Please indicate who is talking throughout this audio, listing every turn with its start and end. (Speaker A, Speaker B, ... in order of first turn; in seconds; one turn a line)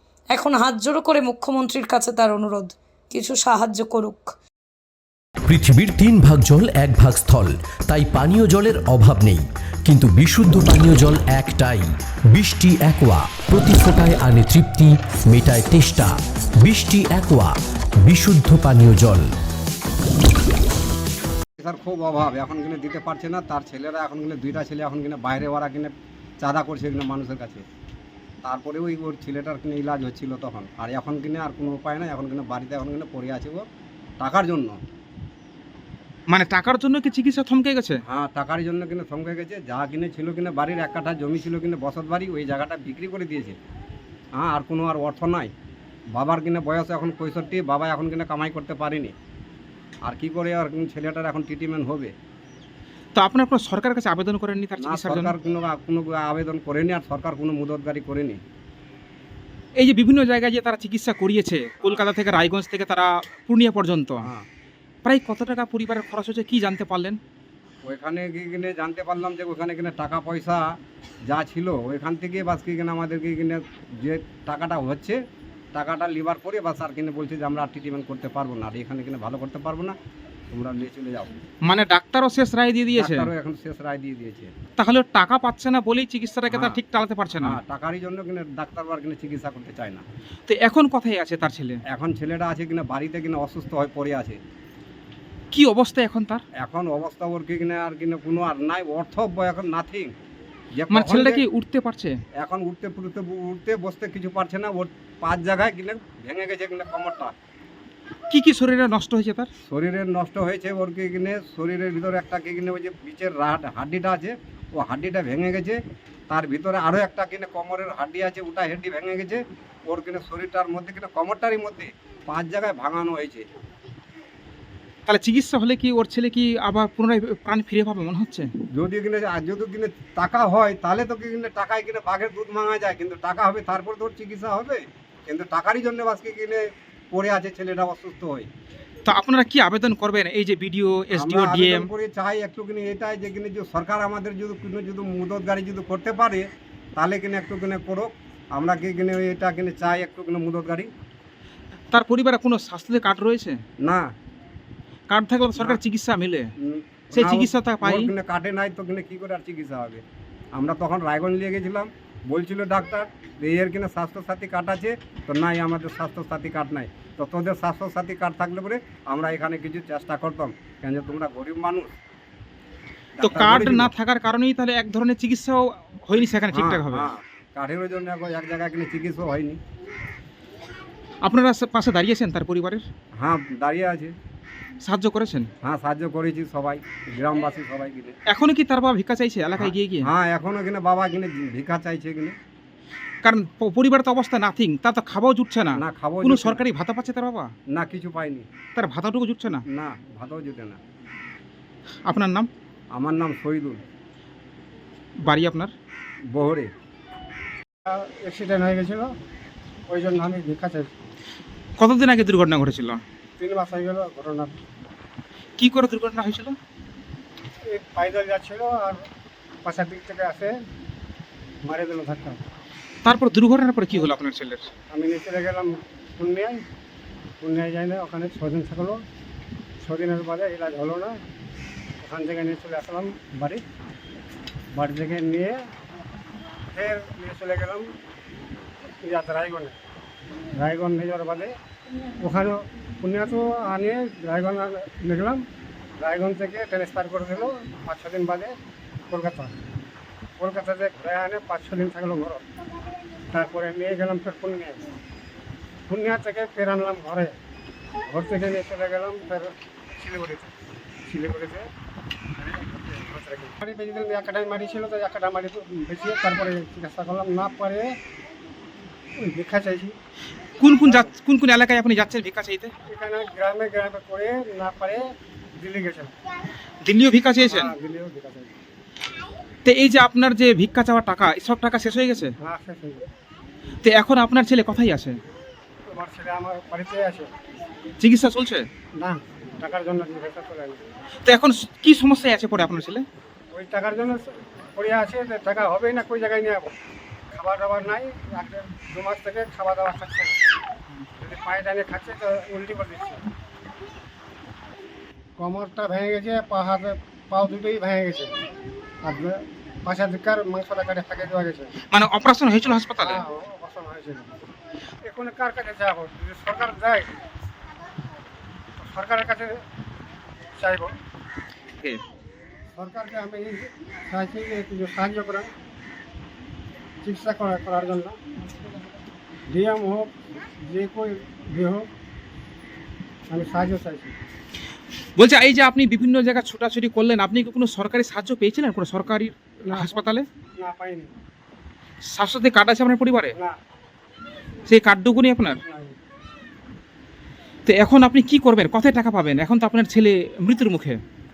Speaker A: 0.3-4.3
Speaker B: 5.5-17.5
Speaker B: 18.0-19.3
Speaker C: 21.6-27.6
Speaker C: 28.4-33.6
Speaker C: 34.2-34.8
Speaker D: 36.3-38.0
Speaker C: 38.1-43.6
Speaker C: 44.4-45.5
Speaker C: 46.1-49.1
Speaker C: 50.0-52.1
Speaker D: 53.1-55.3
Speaker C: 54.8-58.4
Speaker D: 59.8-64.2
Speaker D: 65.0-67.2
Speaker C: 67.8-70.7
Speaker C: 71.2-75.2
Speaker C: 75.7-80.0
Speaker C: 80.5-81.3
Speaker D: 81.7-83.3
Speaker C: 82.9-84.5
Speaker D: 84.8-87.6
Speaker C: 86.5-86.8
Speaker C: 87.4-90.0
Speaker D: 90.5-91.8
Speaker C: 91.9-94.4
Speaker D: 95.5-96.4
Speaker C: 96.6-100.1
Speaker C: 100.7-101.4
Speaker D: 100.9-102.1
Speaker C: 102.4-107.3
Speaker D: 108.3-109.5
Speaker C: 109.7-115.8
Speaker C: 116.3-123.5
Speaker D: 125.1-128.5
Speaker C: 128.7-138.5
Speaker D: 139.1-141.9
Speaker C: 141.1-150.9
Speaker D: 151.9-153.6
Speaker C: 153.8-154.1
Speaker D: 155.1-156.5
Speaker C: 156.6-160.0
Speaker D: 157.1-158.1
Speaker C: 160.5-171.9
Speaker C: 173.2-173.9
Speaker D: 173.2-177.1
Speaker C: 176.5-179.6
Speaker D: 181.2-182.8
Speaker C: 183.2-184.1
Speaker D: 184.8-185.5
Speaker C: 185.6-188.2
Speaker D: 188.3-190.1
Speaker C: 189.6-192.3
Speaker D: 193.2-197.5
Speaker C: 195.8-196.6
Speaker C: 197.7-198.5
Speaker D: 198.8-199.6
Speaker C: 199.7-200.8
Speaker D: 202.1-202.5
Speaker C: 202.9-203.8
Speaker D: 205.2-205.7
Speaker C: 206.3-206.7
Speaker E: 207.9-209.1
Speaker E: 209.9-210.9
Speaker D: 211.8-213.0
Speaker E: 213.4-214.6
Speaker D: 215.6-216.5
Speaker E: 217.7-219.0
Speaker E: 219.6-220.5
Speaker E: 221.7-222.4
Speaker D: 223.0-224.7
Speaker E: 224.9-226.6
Speaker E: 227.4-229.0
Speaker E: 229.8-231.2
Speaker E: 232.0-233.6
Speaker E: 234.7-235.6
Speaker E: 236.7-237.8
Speaker E: 239.0-239.8
Speaker E: 240.6-241.5
Speaker E: 242.2-245.4
Speaker E: 246.0-248.5
Speaker E: 249.1-249.5
Speaker E: 250.4-252.4
Speaker E: 253.3-254.8
Speaker E: 255.9-257.3
Speaker E: 258.1-260.5
Speaker E: 261.1-261.7
Speaker E: 262.4-267.9
Speaker E: 269.2-269.9
Speaker D: 270.6-272.7
Speaker E: 272.9-275.0
Speaker E: 275.6-276.1
Speaker D: 276.9-277.7
Speaker E: 277.4-278.5
Speaker D: 279.6-282.3
Speaker E: 282.4-283.1
Speaker D: 283.8-285.2
Speaker E: 285.9-287.3
Speaker D: 288.0-288.6
Speaker E: 289.0-290.8
Speaker D: 291.2-293.0
Speaker E: 293.5-296.7
Speaker E: 297.3-300.4
Speaker E: 301.2-303.2
Speaker E: 305.4-308.3
Speaker E: 309.0-311.7
Speaker D: 311.9-313.2
Speaker E: 313.0-314.3
Speaker E: 315.0-317.1
Speaker E: 318.8-319.5
Speaker E: 320.6-320.9
Speaker E: 322.8-325.5
Speaker E: 327.0-328.1
Speaker E: 329.5-330.1
Speaker E: 330.6-331.9
Speaker E: 333.3-334.1
Speaker D: 335.2-340.2
Speaker E: 339.7-340.0
Speaker E: 340.6-341.1
Speaker D: 342.1-343.3
Speaker D: 344.7-345.6
Speaker E: 345.6-345.9
Speaker D: 347.7-351.0